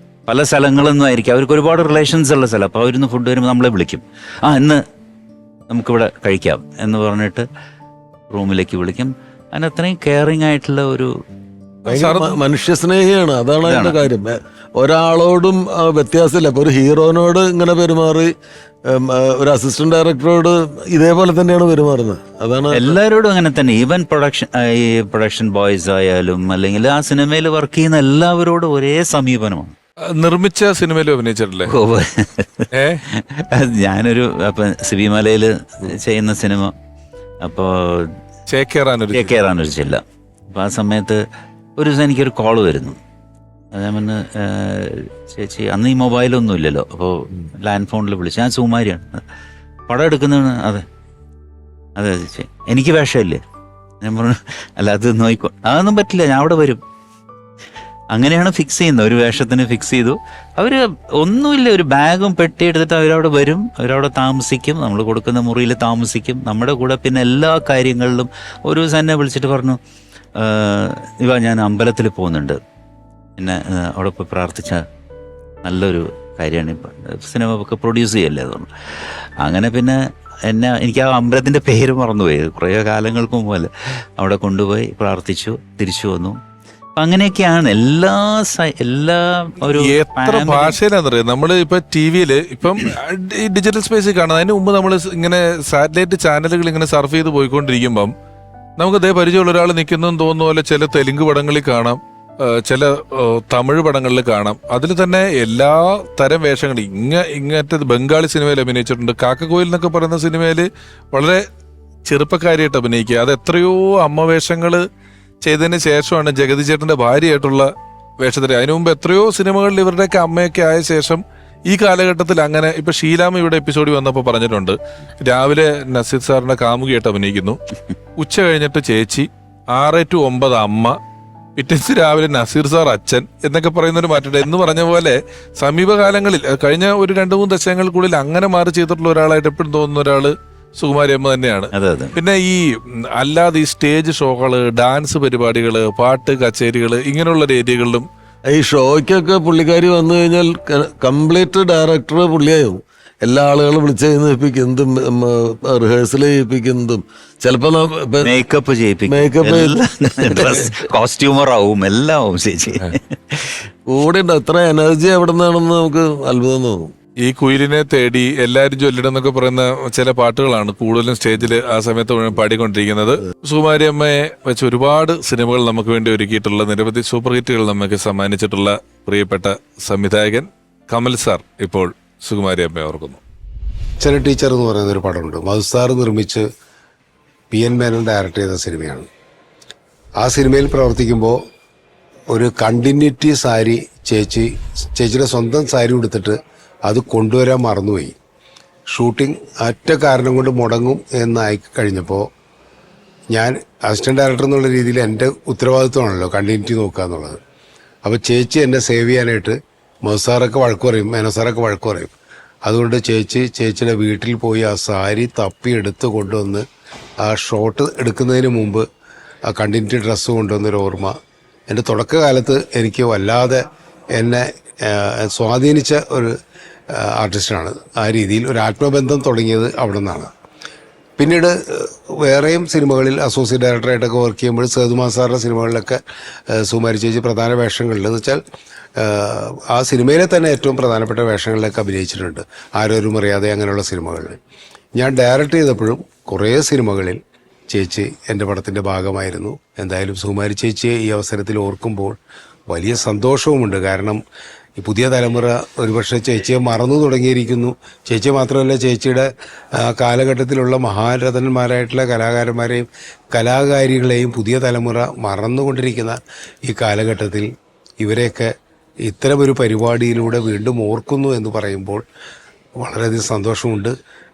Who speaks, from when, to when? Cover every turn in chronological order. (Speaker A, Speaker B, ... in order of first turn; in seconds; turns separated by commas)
Speaker A: 0.3-4.8, Speaker A: 5.7-7.5, Speaker A: 8.3-11.1, Speaker B: 11.9-18.3, Speaker C: 11.9-12.4, Speaker A: 13.6-14.0, Speaker B: 18.9-23.0, Speaker A: 22.7-29.8, Speaker C: 30.1-31.7, Speaker A: 31.7-36.7, Speaker C: 32.7-33.0, Speaker A: 37.4-38.1, Speaker C: 38.5-39.3, Speaker A: 39.1-41.2, Speaker A: 41.8-43.0, Speaker A: 43.8-49.2, Speaker A: 49.9-50.8, Speaker A: 52.0-53.4, Speaker A: 54.0-56.8, Speaker A: 58.1-69.8, Speaker A: 70.4-72.6, Speaker A: 73.4-74.8, Speaker A: 75.6-78.7, Speaker A: 79.4-86.4, Speaker A: 87.0-90.8, Speaker C: 89.7-98.1, Speaker C: 98.8-111.5, Speaker C: 112.1-114.8, Speaker C: 115.4-127.6, Speaker C: 128.2-131.0, Speaker C: 131.6-148.1, Speaker A: 141.7-142.2, Speaker B: 148.5-158.3, Speaker A: 158.2-163.7, Speaker B: 159.1-160.7, Speaker B: 163.9-166.9, Speaker C: 167.2-183.2, Speaker D: 184.0-186.5, Speaker D: 187.5-189.1, Speaker D: 190.2-191.4, Speaker D: 192.3-198.1, Speaker D: 198.9-202.3, Speaker D: 203.3-207.4, Speaker D: 208.0-212.1, Speaker D: 212.7-216.6, Speaker D: 217.2-218.8, Speaker D: 219.5-221.1, Speaker D: 221.7-223.6, Speaker D: 224.2-226.4, Speaker D: 227.0-230.3, Speaker D: 231.2-236.0, Speaker D: 236.5-238.4, Speaker D: 239.0-244.4, Speaker D: 245.0-252.2, Speaker D: 252.7-254.2, Speaker D: 254.8-259.3, Speaker D: 259.8-267.5, Speaker D: 268.0-268.5, Speaker D: 269.1-272.0, Speaker D: 272.8-273.9